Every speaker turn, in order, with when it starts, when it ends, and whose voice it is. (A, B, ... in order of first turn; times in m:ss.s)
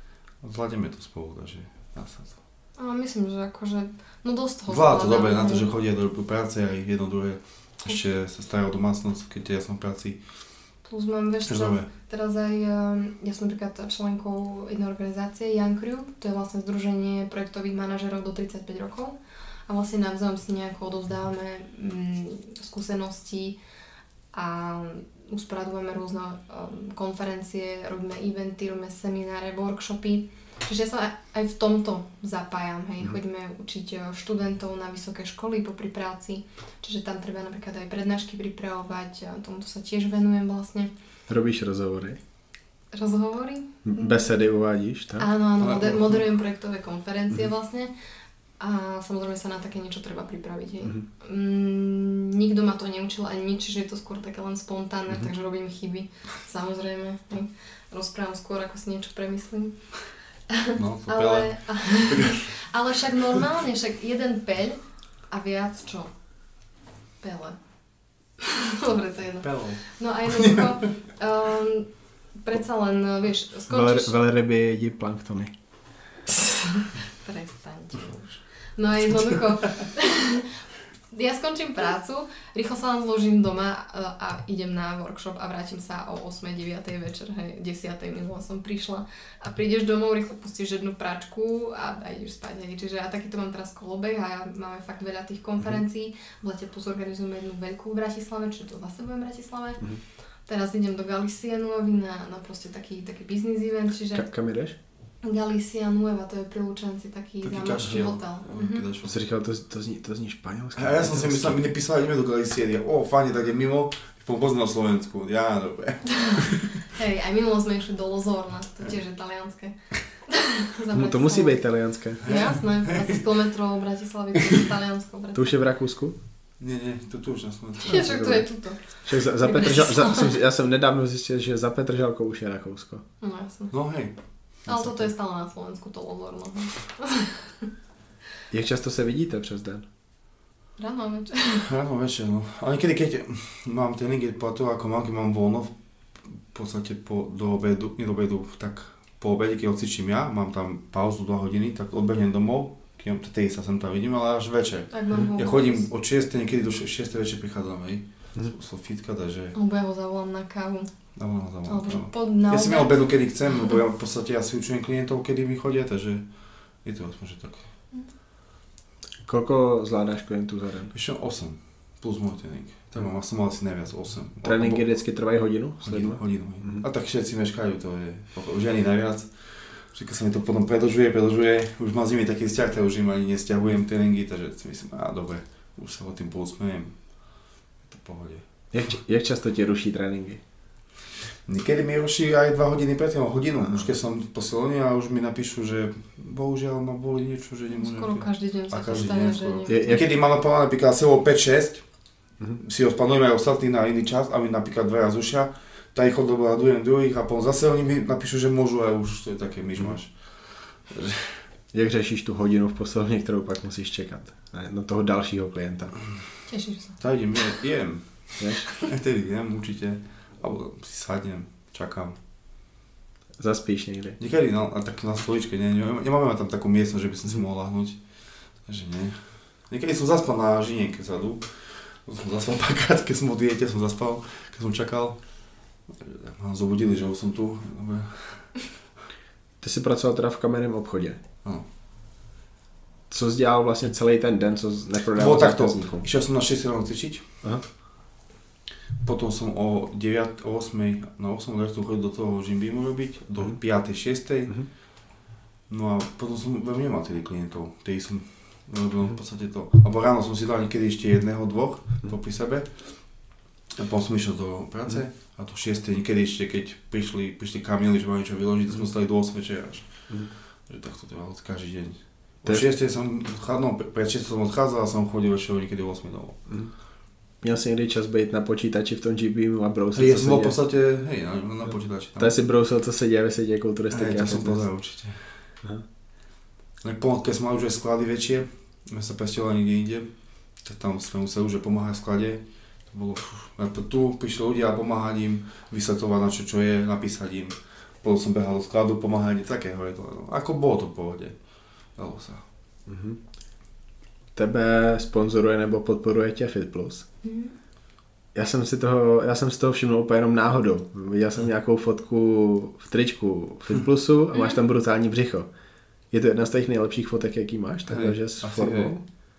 0:00.4-0:02.4 A
0:02.8-0:05.7 B
0:04.7-0:10.3 A
0:10.8-0:23.6 B
0:11.5-0:11.9 A
0:24.3-0:40.9 B
0:41.3-0:42.2 C
0:42.9-0:44.2 B
0:43.8-0:45.2 C
0:45.2-0:47.9 B
0:45.6-0:46.2 A
0:48.6-1:00.0 B
1:00.5-1:06.1 B
1:00.7-1:02.4 A
1:07.2-1:07.6 B
1:08.4-1:14.1 B
1:09.4-1:09.8 A
1:10.4-1:10.6 A
1:13.7-1:15.5 C
1:16.3-1:20.5 B
1:21.1-1:39.8 B
1:40.5-1:44.3 B
1:44.1-1:44.7 C
1:45.2-1:48.9 B
1:47.4-1:49.2 A
1:49.0-1:51.6 C
1:50.8-1:56.8 A
1:56.1-1:56.4 B
1:56.9-2:01.6 B
2:00.9-2:02.2 C
2:02.2-2:05.6 B
2:02.2-2:03.2 A
2:05.3-2:06.2 C
2:06.6-2:08.0 A
2:07.8-2:10.4 B
2:07.9-2:13.0 C
2:13.2-2:13.8 B
2:13.7-2:14.1 A
2:14.6-2:17.7 B
2:18.5-2:19.8 C
2:20.8-2:21.7 B
2:21.6-2:39.6 A
2:34.9-2:35.9 B
2:39.6-2:40.9 B
2:41.2-2:47.6 A
2:41.6-2:43.1 B
2:49.2-2:50.9 C
2:50.9-2:55.0 A
2:54.4-2:56.8 C
2:55.8-3:08.4 A
3:08.7-3:10.4 C
3:11.4-3:22.0 A
3:17.7-3:20.0 B
3:19.7-3:20.0 C
3:22.6-3:31.4 A
3:31.7-3:36.0 C
3:36.5-3:37.0 B
3:37.0-3:42.2 A
3:38.4-3:38.7 C
3:43.4-3:44.2 C
3:44.2-3:58.6 A
3:59.6-4:01.2 C
4:03.1-4:06.0 C
4:05.2-4:07.4 A
4:09.0-4:14.8 A
4:15.7-4:36.4 A
4:36.5-4:36.8 C
4:37.4-4:40.6 C
4:39.9-4:42.3 A
4:42.2-4:44.6 C
4:43.9-4:45.5 A
4:46.8-5:02.4 A
5:02.9-5:03.2 C
5:04.3-5:07.1 C
5:07.2-5:07.5 B
5:08.3-5:15.5 C
5:14.3-5:14.6 B
5:16.1-5:19.0 C
5:17.9-5:19.0 A